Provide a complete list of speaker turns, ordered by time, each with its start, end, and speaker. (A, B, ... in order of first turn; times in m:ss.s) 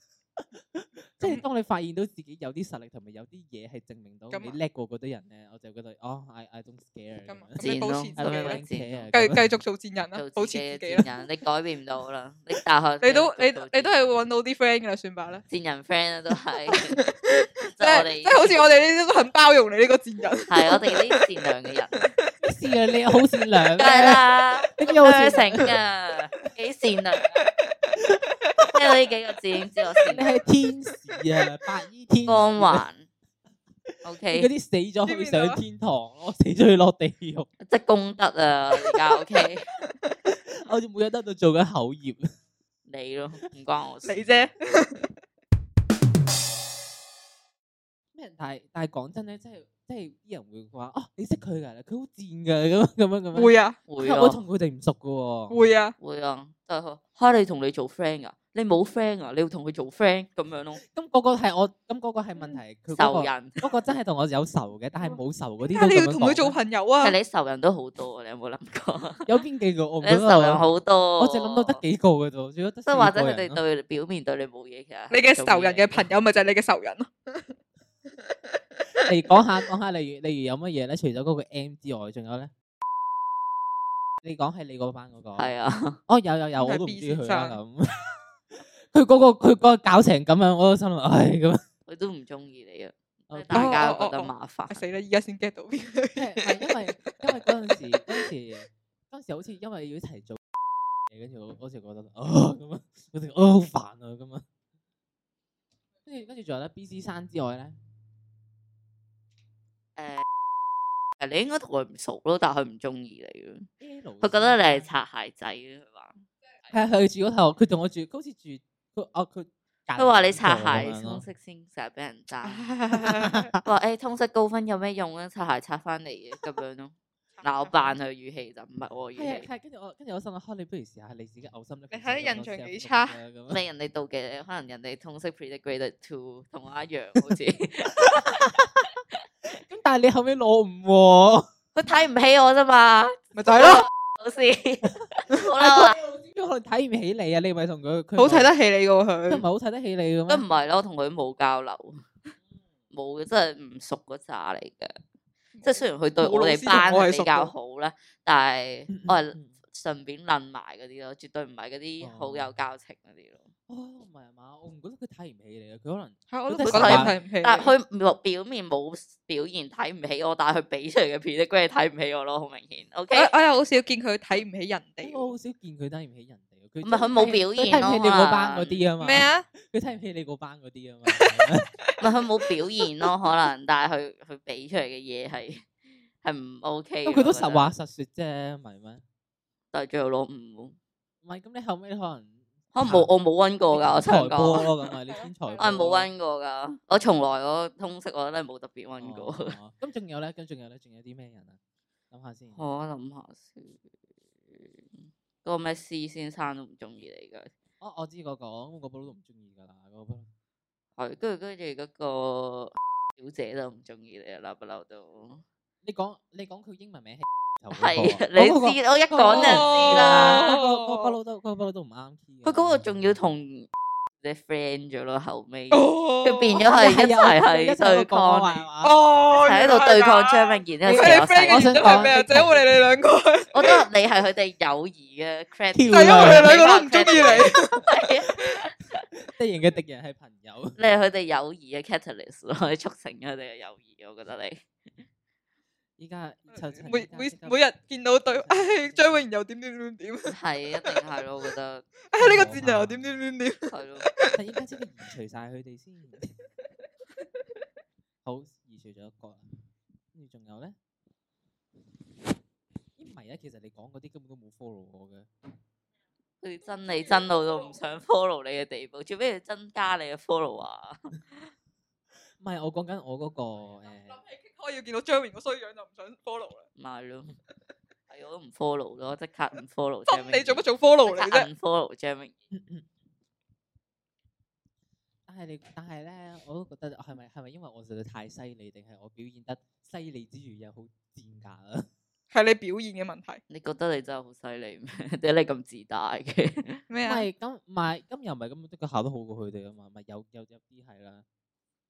0:00.4-0:07.6 A
0:04.3-0:04.6 B
0:07.3-0:08.6 B
0:07.6-0:09.1 C
0:08.2-0:09.6 A
0:09.1-0:11.1 B
0:10.2-0:14.2 C
0:13.0-0:15.4 B
0:15.5-0:17.0 C
0:16.7-0:21.2 B
0:17.7-0:18.6 C
0:20.5-0:22.1 C
0:22.4-0:24.2 A
0:23.8-0:27.5 C
0:24.8-0:25.7 A
0:27.4-0:28.8 B
0:28.7-0:30.2 C
0:30.1-0:32.8 A
0:32.3-0:33.1 C
0:34.0-0:34.5 C
0:34.3-0:37.5 A
0:35.0-0:35.6 B
0:37.6-0:39.7 C
0:38.9-0:39.5 B
0:40.3-0:42.2 A
0:42.9-0:44.2 C
0:44.0-0:45.1 B
0:48.1-0:55.6 A
0:53.3-0:53.8 B
0:53.9-0:54.4 C
0:55.5-0:55.9 B
0:56.0-1:00.8 C
1:00.8-1:06.6 A
1:02.9-1:03.6 C
1:05.0-1:07.2 B
1:07.0-1:09.4 C
1:09.3-1:10.6 A
1:10.0-1:11.8 C
1:11.2-1:13.6 A
1:12.9-1:16.0 C
1:15.1-1:17.5 B
1:19.0-1:22.5 A
1:24.2-1:25.5 A
1:25.4-1:26.0 C
1:26.1-1:27.9 A
1:26.6-1:27.6 B
1:28.8-1:31.6 A
1:31.9-1:34.8 C
1:33.3-1:33.8 A
1:33.5-1:37.2 B
1:36.2-1:40.4 A
1:41.1-1:44.4 A
1:46.1-1:47.8 A
1:50.0-1:50.2 C
1:51.2-1:53.7 C
1:53.8-1:54.8 A
1:54.2-1:56.2 C
1:56.7-2:01.2 A
2:00.0-2:02.7 C
2:02.4-2:03.5 B
2:02.9-2:03.6 A
2:03.6-2:09.5 C
2:07.4-2:08.0 B
2:09.2-2:13.6 A
2:11.9-2:13.2 B
2:13.5-2:18.6 C
2:18.1-2:18.7 A
2:19.5-2:21.5 A
2:21.8-2:26.0 C
2:23.4-2:23.9 B
2:25.6-2:28.5 A
2:28.2-2:29.4 B
2:29.3-2:30.4 A
2:30.3-2:32.1 C
2:32.9-2:35.0 C
2:35.6-2:37.5 B
2:35.6-2:43.5 C
2:38.9-2:39.5 A
2:42.0-2:42.5 A
2:43.7-2:47.2 A
2:46.3-2:47.7 B
2:46.6-2:53.3 C
2:53.1-2:55.3 B
2:55.0-3:01.7 A
2:56.8-2:58.8 C
2:59.0-2:59.4 B
3:01.1-3:02.0 B
3:02.0-3:05.7 C
3:06.2-3:07.7 C
3:07.0-3:09.0 A
3:09.7-3:10.8 C
3:11.2-3:13.1 A
3:12.7-3:14.7 C
3:13.7-3:16.1 A
3:15.1-3:15.9 B
3:15.6-3:19.6 C
3:19.0-3:21.6 A
3:22.1-3:22.6 A
3:22.5-3:23.8 C
3:24.5-3:27.5 C
3:27.8-3:30.3 A
3:31.0-3:35.4 C
3:35.8-3:43.0 A
3:37.7-3:40.4 C
3:39.3-3:41.1 B
3:42.4-3:43.7 C
3:44.2-3:48.6 C
3:45.7-3:46.6 B
3:46.7-3:48.9 A
3:48.8-3:53.8 B
3:49.3-3:52.1 C
3:50.8-3:52.8 A
3:53.5-3:59.0 C
3:55.7-3:56.6 A
3:55.9-3:57.9 B
3:59.3-4:00.8 A
4:00.8-4:04.7 C
4:06.0-4:07.6 A
4:06.8-4:11.0 B
4:08.3-4:09.2 A
4:10.3-4:11.9 C
4:12.1-4:14.4 B
4:12.2-4:13.1 A
4:13.7-4:14.1 C
4:14.3-4:16.3 A
4:18.2-4:19.4 A
4:20.1-4:20.8 A
4:23.0-4:25.3 A
4:26.4-4:31.1 C
4:27.1-4:27.4 B
4:32.4-4:34.2 A
4:34.1-4:36.7 B
4:36.8-4:37.4 C
4:38.1-4:42.3 C
4:40.1-4:41.5 B
4:42.5-4:42.9 A
4:45.3-4:51.9 A
4:52.3-4:53.4 B
4:53.5-4:56.8 C
4:56.9-4:57.3 B
4:57.0-5:01.2 A